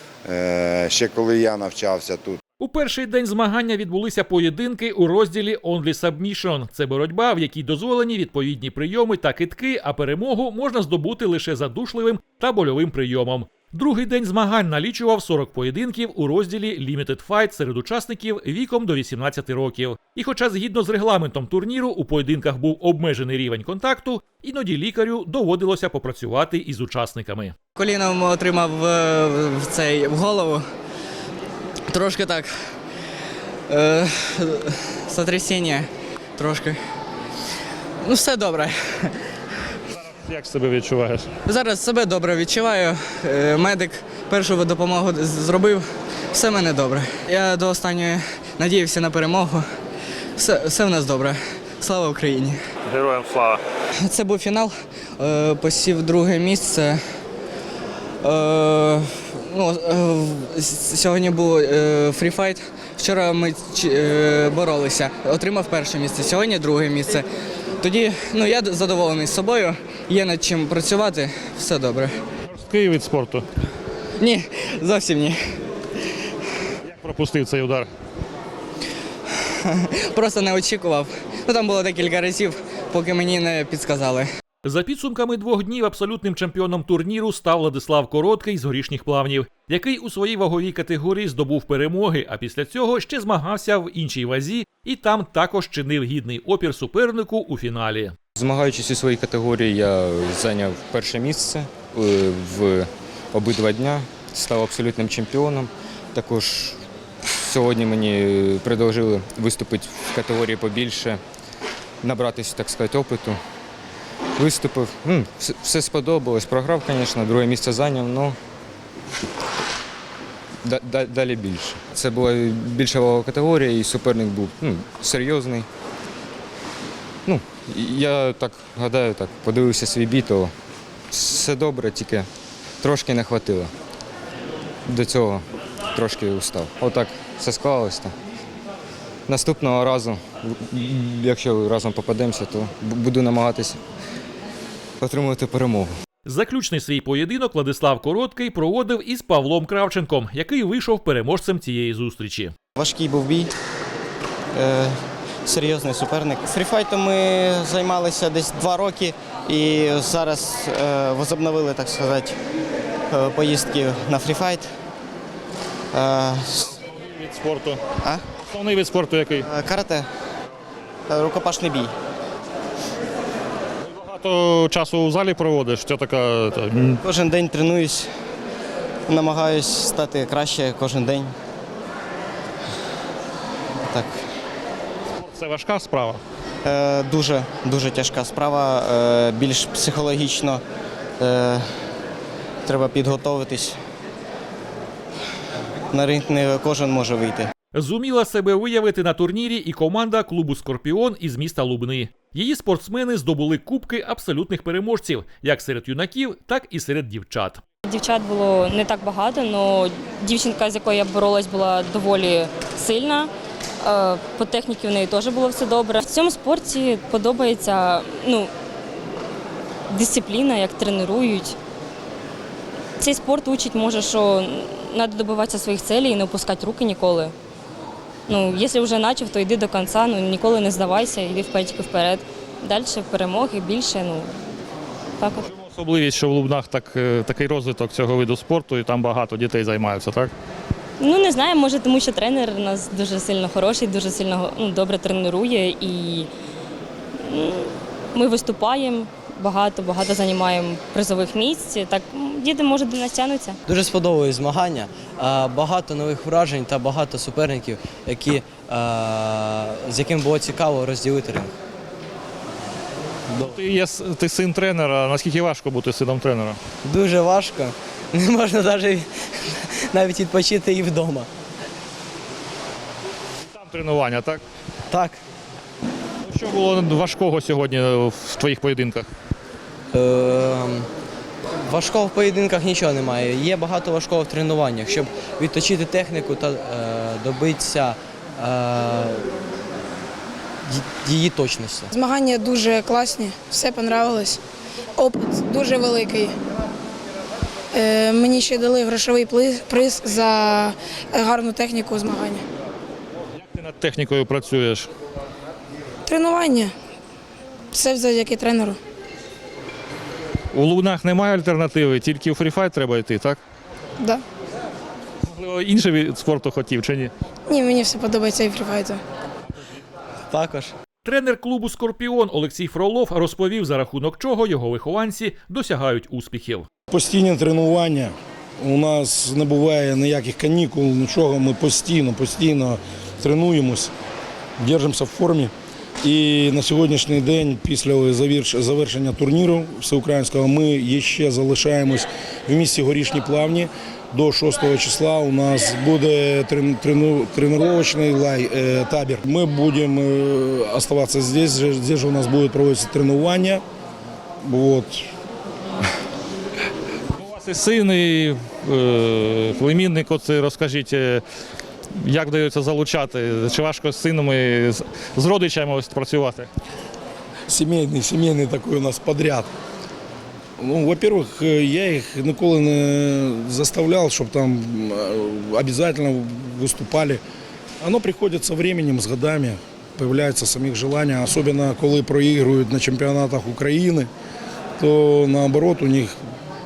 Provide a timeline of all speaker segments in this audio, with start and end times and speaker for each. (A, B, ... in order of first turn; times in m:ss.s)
0:00.2-0:02.4 A
0:02.6-0:27.5 B
0:27.8-0:30.6 C
0:31.9-0:32.5 C
0:33.7-0:36.8 C
0:38.0-0:39.2 C
0:40.0-0:41.3 D
0:41.4-0:49.6 C
0:50.4-0:52.6 C
0:52.9-0:53.6 D
0:54.0-0:57.0 C
0:58.2-1:07.3 C
1:07.8-1:12.2 C
1:12.5-1:13.4 D
1:14.2-1:15.4 C
1:16.8-1:17.9 D
1:19.6-1:24.3 C
1:24.6-1:38.1 B
1:38.4-1:46.8 E
1:47.3-1:51.2 E
1:52.0-1:53.4 E
1:54.4-1:58.4 E
2:00.6-2:05.7 E
2:07.2-2:10.5 E
2:11.1-2:12.3 E
2:12.8-2:13.7 E
2:14.9-2:18.1 E
2:19.3-2:23.8 E
2:25.0-2:25.9 E
2:26.2-2:32.5 B
2:32.8-2:33.5 F
2:34.5-2:42.4 F
2:43.1-2:44.7 F
2:45.9-2:46.6 F
2:46.9-2:47.8 D
2:48.4-2:49.4 D
2:49.4-2:50.1 F
2:51.1-2:51.9 F
2:53.9-2:57.0 D
2:57.0-2:58.1 F
2:59.1-3:01.3 F
3:03.9-3:04.2 F
3:05.2-3:06.2 D
3:06.6-3:10.6 F
3:11.2-3:11.6 F
3:12.6-3:13.8 F
3:15.9-3:17.5 F
3:17.7-3:27.6 B
3:27.8-3:33.3 G
3:33.8-3:38.5 G
3:39.9-3:41.6 G
3:43.0-3:47.3 G
3:48.3-3:54.3 G
3:55.2-3:55.4 G
3:55.4-4:00.3 D
4:01.0-4:06.3 G
4:07.2-4:13.6 G
4:13.7-4:21.5 H
4:23.4-4:26.6 D
4:26.8-4:31.3 H
4:33.5-4:34.4 D
4:34.9-4:35.2 H
4:36.3-4:39.1 D
4:39.9-4:40.9 H
4:41.7-4:49.2 H
4:50.7-4:51.9 H
4:51.9-4:54.4 I
4:55.0-4:56.3 I
4:57.7-5:02.4 I
5:03.4-5:04.9 D
5:06.1-5:06.7 I
5:07.7-5:08.8 I
5:10.5-5:13.4 D
5:15.2-5:17.1 D
5:17.5-5:19.0 I
5:20.3-5:20.7 H
5:21.0-5:26.6 B
5:26.9-5:33.9 J
5:34.6-5:53.6 J
5:54.4-5:55.0 J
5:57.2-6:01.2 D
6:02.0-6:06.5 D
6:07.5-6:09.5 J
6:10.6-6:17.2 J
6:17.8-6:24.1 J
6:24.8-6:26.2 J